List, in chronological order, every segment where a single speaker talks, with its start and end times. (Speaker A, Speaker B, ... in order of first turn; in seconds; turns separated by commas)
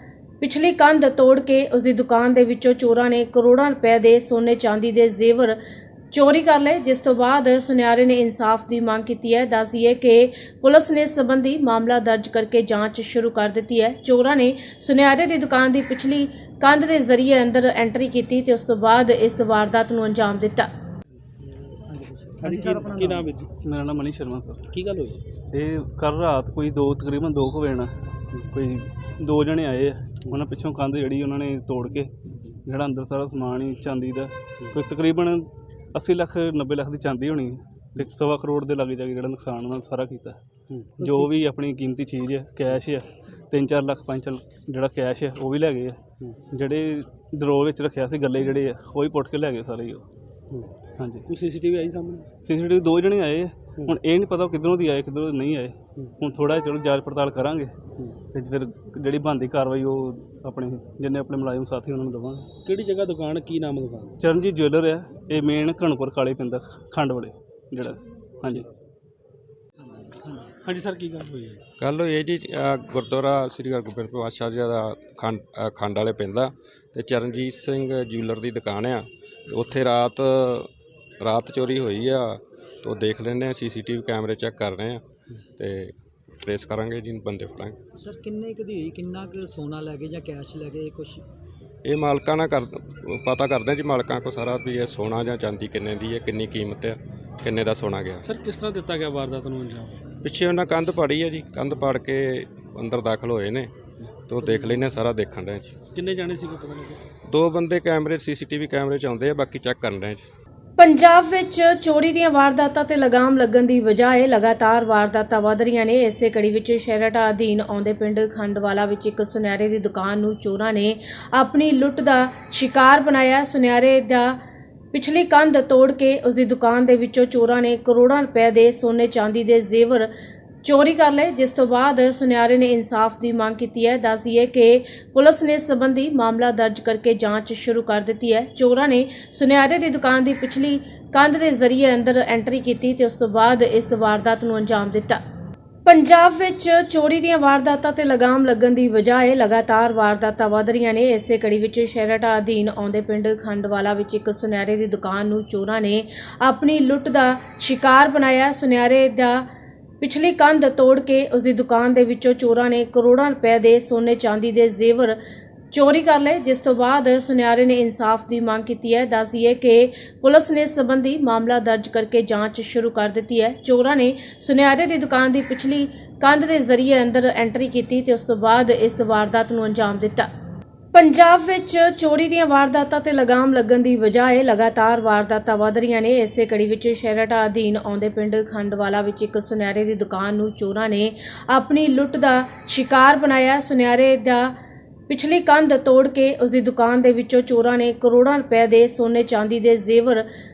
Speaker A: 0.4-5.6, Speaker A: 6.1-20.7, Speaker B: 21.6-23.3, Speaker C: 22.4-23.5, Speaker D: 23.6-24.6, Speaker C: 24.7-25.2, Speaker D: 25.5-27.9, Speaker D: 28.5-32.1, Speaker D: 32.6-40.4, Speaker D: 41.0-46.0, Speaker B: 41.0-41.3, Speaker D: 46.5-50.0, Speaker D: 51.0-51.3, Speaker C: 51.3-52.3, Speaker D: 52.4-57.7, Speaker D: 58.3-62.5, Speaker C: 62.6-64.2, Speaker D: 64.2-68.7, Speaker C: 70.6-71.6, Speaker E: 71.8-80.7, Speaker E: 81.2-85.0, Speaker E: 85.6-87.8, Speaker B: 88.0-91.2, Speaker E: 91.8-98.2, Speaker C: 98.2-100.0, Speaker E: 100.2-103.7, Speaker E: 104.3-105.7, Speaker C: 105.9-107.0, Speaker E: 107.2-110.2, Speaker A: 110.8-124.4, Speaker A: 124.9-130.1, Speaker A: 130.6-145.2, Speaker A: 145.8-159.4, Speaker A: 160.0-165.2, Speaker A: 165.7-180.3, Speaker A: 180.9-194.5, Speaker A: 195.1-200.2